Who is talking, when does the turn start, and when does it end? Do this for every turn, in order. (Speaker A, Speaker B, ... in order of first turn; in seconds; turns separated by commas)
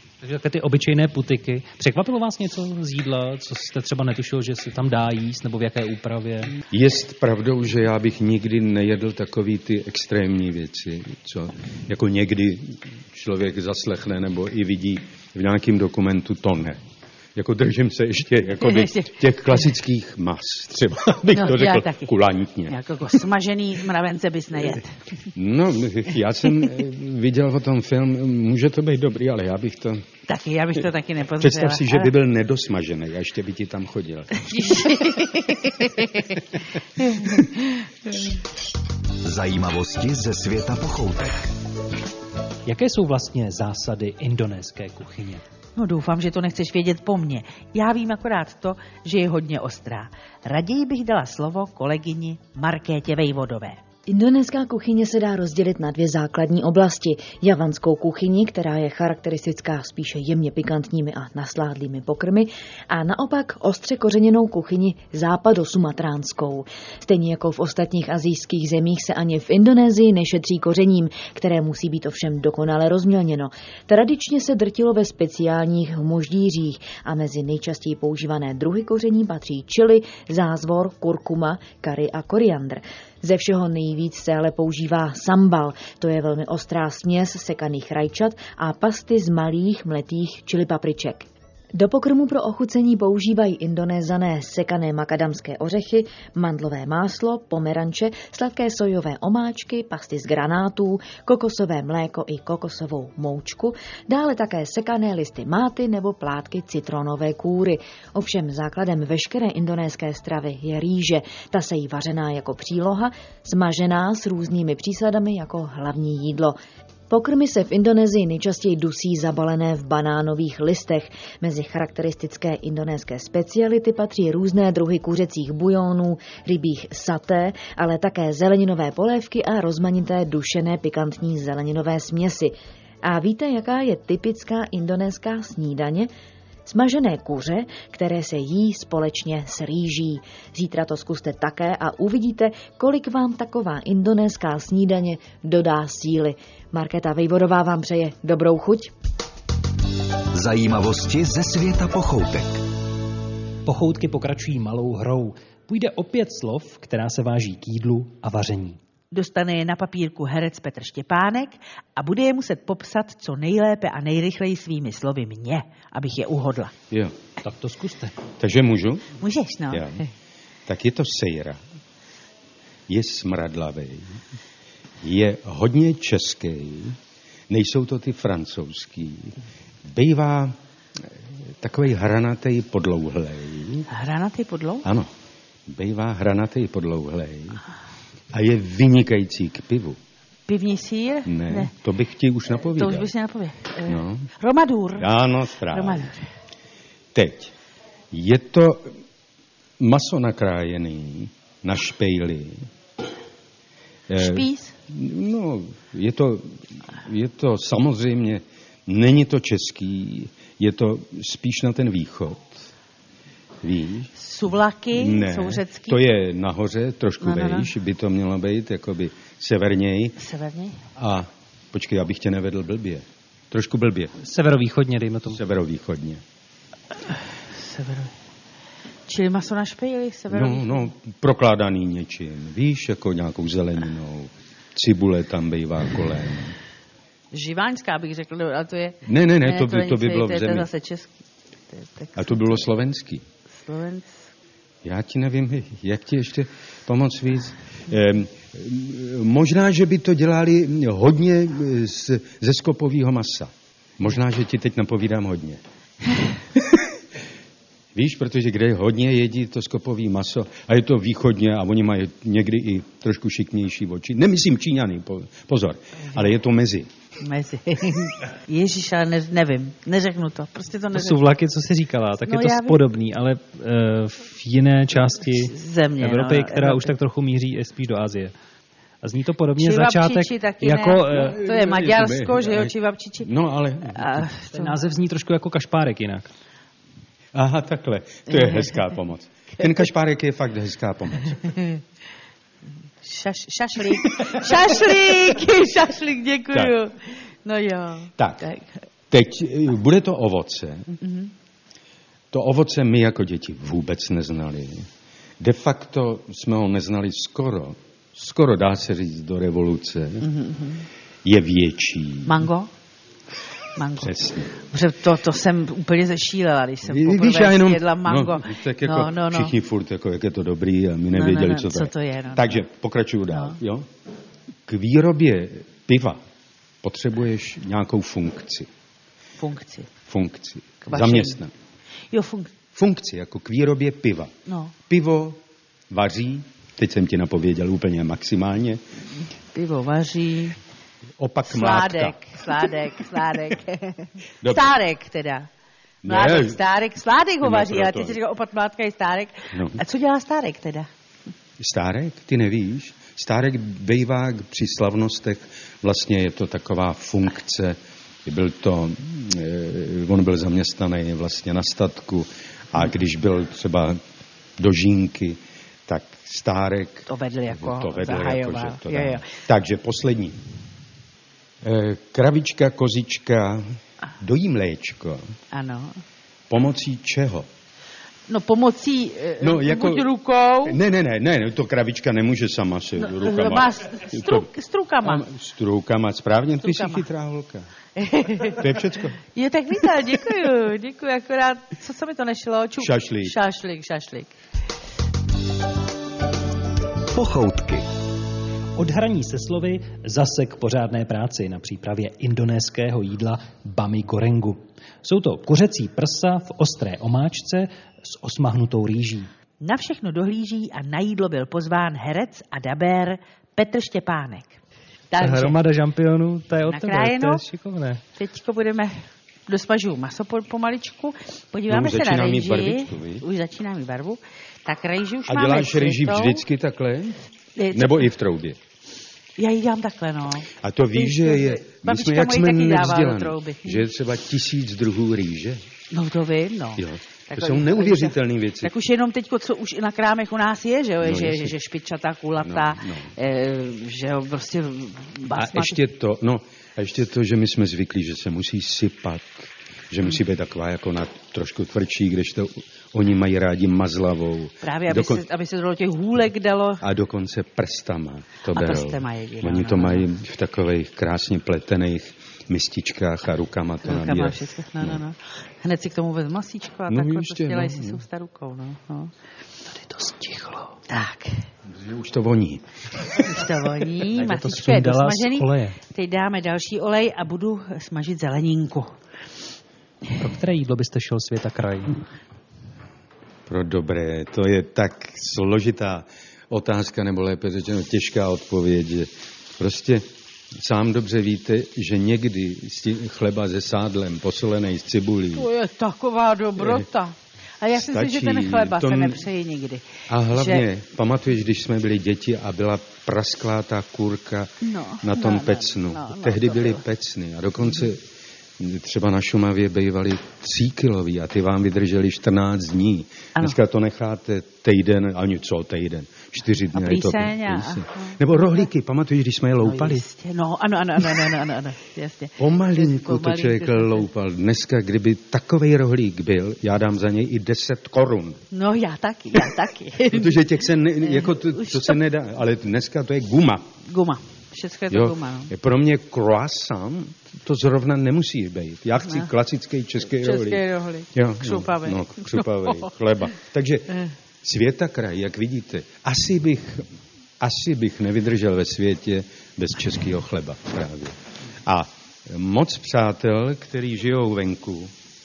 Speaker A: 0.2-6.5, Speaker B: 6.7-16.8, Speaker B: 17.3-22.7, Speaker C: 18.6-19.1, Speaker C: 21.3-22.1, Speaker C: 22.7-25.0, Speaker B: 25.3-30.0, Speaker C: 30.3-32.1, Speaker B: 31.4-35.0, Speaker C: 34.5-36.4, Speaker C: 37.0-38.2, Speaker B: 37.0-37.4, Speaker D: 39.2-41.5, Speaker A: 42.6-45.4, Speaker C: 45.8-53.8, Speaker E: 54.1-116.6, Speaker E: 117.1-136.1, Speaker E: 136.7-148.9, Speaker D: 150.3-152.6, Speaker A: 153.7-158.8, Speaker C: 159.1-166.7, Speaker A: 167.4-168.1, Speaker B: 168.4-169.1, Speaker C: 169.2-170.1, Speaker B: 169.7-170.0, Speaker B: 170.7-171.6, Speaker B: 172.9-174.2, Speaker B: 175.0-177.0, Speaker B: 177.5-183.9, Speaker C: 183.9-184.8, Speaker B: 184.8-185.1, Speaker B: 185.7-187.6, Speaker B: 188.3-190.0, Speaker C: 190.5-191.7, Speaker B: 191.2-193.1, Speaker C: 192.7-195.1, Speaker B: 193.9-194.3, Speaker B: 195.0-196.1, Speaker C: 195.7-196.3, Speaker B: 197.1-197.5, Speaker B: 198.1-198.9, Speaker B: 199.8-202.6, Speaker B: 204.1-212.6, Speaker C: 204.2-204.7, Speaker B: 213.6-214.1, Speaker C: 214.2-216.0, Speaker B: 214.9-220.2, Speaker C: 217.2-217.7, Speaker C: 220.2-220.8, Speaker B: 220.9-224.1, Speaker A: 224.2-225.4, Speaker B: 225.3-226.2, Speaker C: 227.5-228.1, Speaker C: 229.1-230.9, Speaker B: 230.3-236.6, Speaker C: 237.3-241.2, Speaker B: 239.1-240.7, Speaker C: 241.7-242.6, Speaker B: 242.2-243.2, Speaker C: 243.6-244.2, Speaker B: 244.8-255.6, Speaker B: 256.5-256.9, Speaker B: 257.9-266.9, Speaker C: 267.2-271.2, Speaker A: 270.9-278.3, Speaker C: 272.2-272.8, Speaker C: 275.4-276.9, Speaker A: 279.0-281.4, Speaker C: 279.6-283.3, Speaker B: 281.1-282.7, Speaker B: 283.2-284.2, Speaker C: 283.9-284.7, Speaker A: 284.5-286.3, Speaker B: 287.3-291.6, Speaker C: 288.3-288.8, Speaker C: 291.5-291.8, Speaker C: 293.0-298.8, Speaker B: 294.1-295.1, Speaker B: 298.2-298.4, Speaker B: 299.1-300.9, Speaker C: 301.0-301.3, Speaker B: 302.3-304.9, Speaker B: 305.4-310.3, Speaker C: 310.2-310.8, Speaker B: 311.2-312.4, Speaker C: 312.2-312.7, Speaker C: 313.8-319.5, Speaker B: 314.0-314.5, Speaker B: 316.9-323.9, Speaker C: 321.1-322.6, Speaker C: 323.3-323.6, Speaker B: 324.6-326.2, Speaker B: 326.8-328.7, Speaker C: 329.4-329.9, Speaker B: 330.1-331.5, Speaker C: 330.8-331.4, Speaker C: 332.1-332.5, Speaker B: 332.7-334.3, Speaker C: 334.4-334.7, Speaker B: 334.9-338.8, Speaker C: 339.5-340.6, Speaker B: 341.2-342.2, Speaker C: 341.4-345.5, Speaker B: 344.4-344.7, Speaker B: 346.0-346.6, Speaker C: 346.0-350.9, Speaker B: 347.4-348.2, Speaker B: 349.5-349.8, Speaker B: 351.6-364.0, Speaker B: 364.6-370.4, Speaker C: 367.1-369.3, Speaker B: 371.6-373.6, Speaker B: 374.2-375.3, Speaker C: 375.5-376.0, Speaker B: 376.5-377.5, Speaker C: 378.3-380.8, Speaker B: 379.4-380.1, Speaker B: 380.6-384.5, Speaker C: 383.0-385.2, Speaker B: 385.0-387.7, Speaker C: 386.6-387.1, Speaker C: 387.9-388.7, Speaker B: 388.4-389.2, Speaker C: 389.2-394.3, Speaker B: 392.8-393.3, Speaker D: 397.1-397.8, Speaker A: 398.8-409.3, Speaker C: 409.6-414.6, Speaker C: 415.1-415.6, Speaker A: 415.2-418.0, Speaker C: 416.6-417.4, Speaker C: 418.1-426.4, Speaker B: 421.7-423.2, Speaker B: 425.3-428.6, Speaker C: 427.6-428.1, Speaker C: 429.4-433.9, Speaker B: 430.6-435.6, Speaker C: 435.9-445.8, Speaker B: 436.8-438.7, Speaker B: 441.0-441.5, Speaker B: 442.4-443.1, Speaker B: 445.3-449.4, Speaker B: 449.9-455.2, Speaker C: 454.6-456.8, Speaker B: 456.8-465.0, Speaker C: 458.5-460.1, Speaker C: 463.8-469.1, Speaker B: 466.9-468.0, Speaker A: 469.7-470.8, Speaker C: 470.9-471.4, Speaker B: 471.7-472.6, Speaker C: 473.1-479.0, Speaker A: 474.1-475.8, Speaker A: 480.2-482.0, Speaker B: 483.5-495.5, Speaker C: 495.3-500.6, Speaker B: 496.6-496.8, Speaker B: 497.8-499.2, Speaker B: 500.1-508.0, Speaker C: 504.6-506.8, Speaker B: 508.6-520.0, Speaker C: 516.7-518.6, Speaker C: 519.6-524.0, Speaker B: 522.4-528.4, Speaker C: 528.5-530.4, Speaker B: 530.1-533.7, Speaker C: 531.0-532.0, Speaker C: 533.8-535.5, Speaker B: 534.9-546.9, Speaker C: 540.2-542.9, Speaker B: 547.4-554.9